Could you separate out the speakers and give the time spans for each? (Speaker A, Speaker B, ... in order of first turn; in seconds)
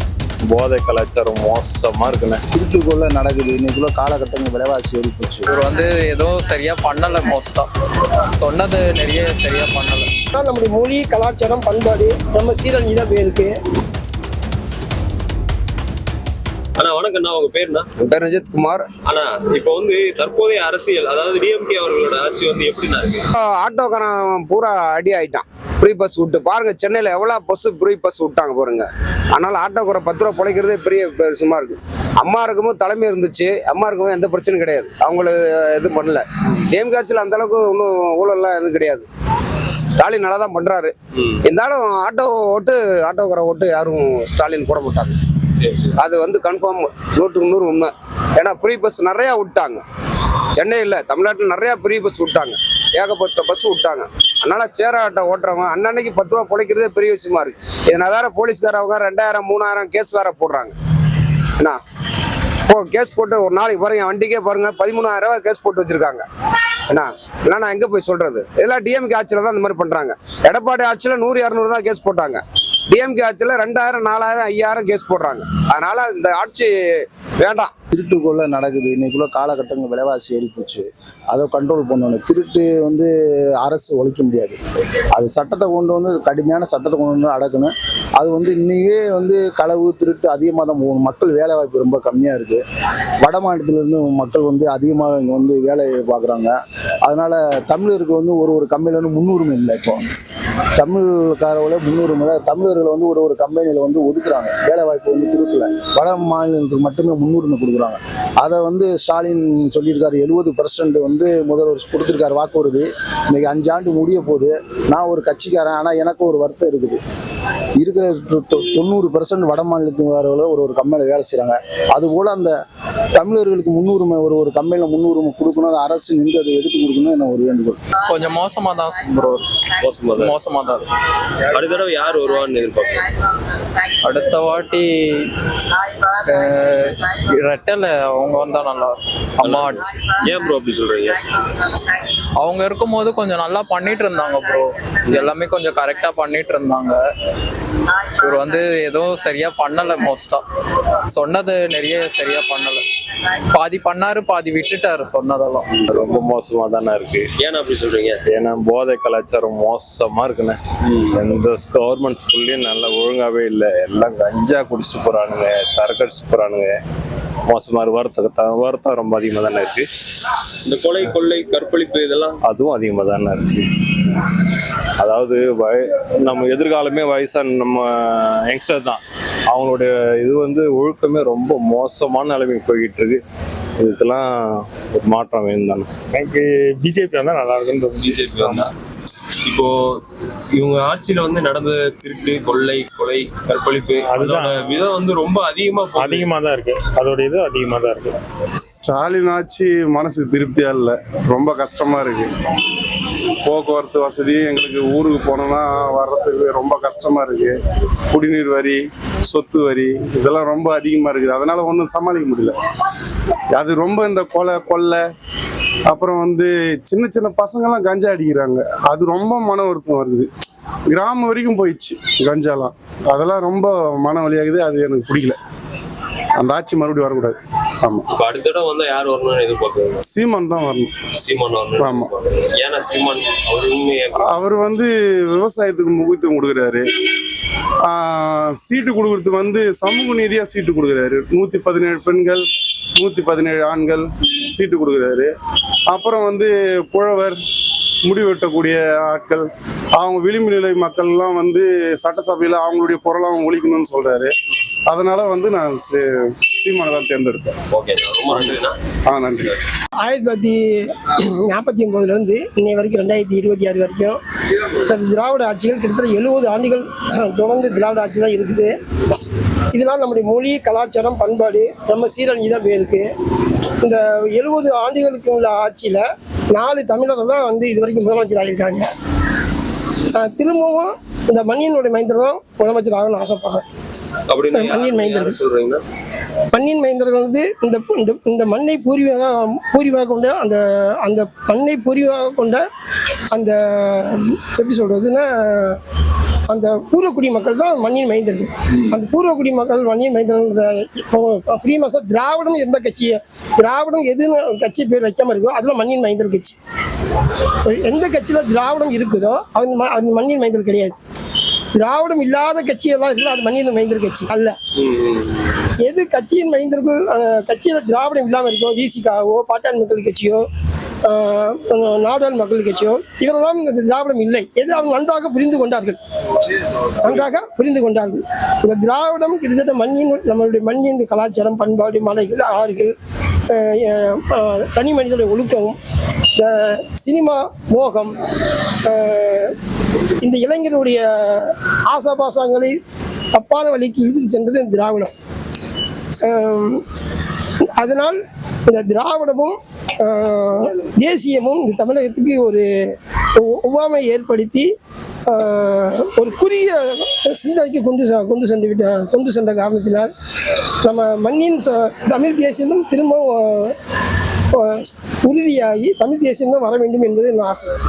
Speaker A: 0.4-2.4, 155.9-157.3, 158.3-166.8, 167.5-169.9, 172.4-174.1, 175.0-183.2, 183.8-185.9
Speaker B: 2.5-5.5, 77.9-84.6, 85.1-92.6, 93.2-100.0, 100.8-117.0, 117.8-122.5, 123.2-127.8
Speaker C: 5.5-7.7, 8.4-10.1, 128.1-129.4, 130.2-130.9, 134.0-135.3, 136.2-140.0, 142.4-147.0, 148.2-150.4, 151.1-152.8, 153.5-155.8
Speaker D: 10.3-13.5, 260.0-268.7, 269.7-273.1, 273.8-278.9, 280.1-283.7, 284.5-285.4, 286.5-292.6, 293.3-295.8, 296.5-306.6, 307.6-311.0, 311.7-314.6, 315.9-320.4, 321.1-326.0, 327.0-332.9, 333.5-335.8, 336.4-338.2, 338.8-342.8, 343.3-345.1, 346.2-346.8, 347.8-352.7, 353.4-354.7, 355.3-360.1, 360.8-363.8, 364.5-367.7
Speaker E: 16.8-17.9, 19.0-23.3, 45.6-46.0, 129.8-130.3, 131.5-133.2, 139.4-141.2, 157.4-158.2, 170.7-172.4, 188.0-188.7, 189.4-190.0, 190.5-196.3, 228.1-230.0, 231.2-234.4, 257.7-258.8, 284.3-285.8, 314.8-315.6
Speaker F: 18.0-18.9, 23.4-39.1, 40.0-40.9, 41.5-45.2, 46.0-49.8, 50.5-60.8, 62.7-66.3, 66.9-77.7
Speaker G: 186.2-188.2, 194.1-194.7, 196.0-198.1
Speaker H: 198.7-202.3, 203.4-207.6, 208.1-212.6, 213.5-215.1, 215.9-220.3, 220.9-225.4, 226.3-228.1, 230.1-230.9, 231.8-232.1, 234.3-236.9, 237.9-242.5, 243.0-245.3, 245.9-247.4, 248.1-254.3, 254.9-257.6, 259.1-259.5